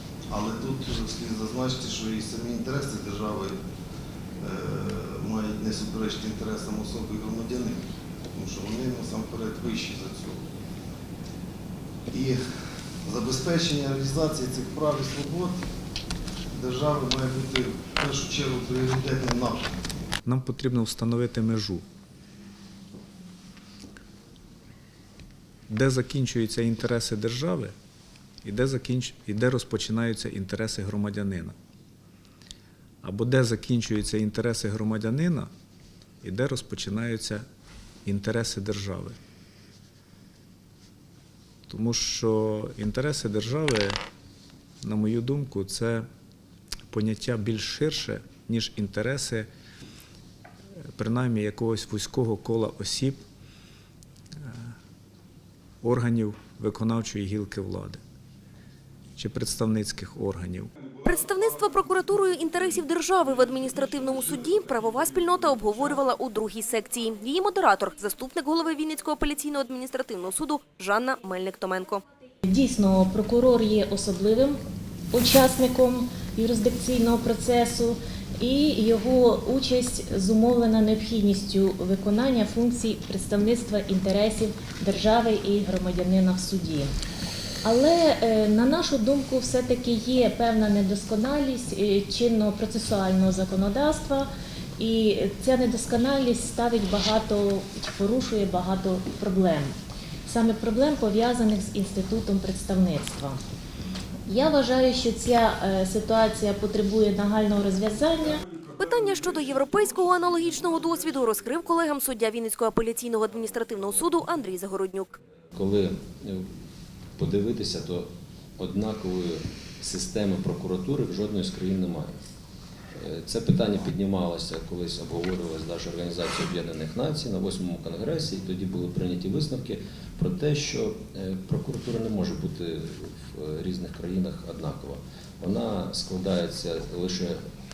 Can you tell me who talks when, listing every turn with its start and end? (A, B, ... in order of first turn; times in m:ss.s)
0:00.3-0:03.6 A
0:04.4-0:10.4 A
0:12.1-0:12.4 A
0:13.0-0:15.6 A
0:16.5-0:19.8 A
0:20.2-0:21.8 B
0:25.7-0:27.7 B
0:28.4-0:31.5 B
0:33.0-0:35.5 B
0:36.2-0:37.4 B
0:38.0-0:39.2 B
0:41.7-0:44.0 B
0:44.8-0:46.1 B
0:46.9-0:49.5 B
0:51.0-0:53.2 B
0:54.4-0:54.7 B
0:55.8-0:58.0 B
0:59.2-1:00.7 B
1:01.0-1:12.0 C
1:12.5-1:14.6 D
1:15.1-1:26.9 D
1:27.6-1:39.7 D
1:40.3-1:43.4 D
1:44.3-1:48.4 D
1:48.8-1:55.2 C
1:55.6-1:56.5 E
1:57.2-2:02.1 E
2:03.0-2:17.4 E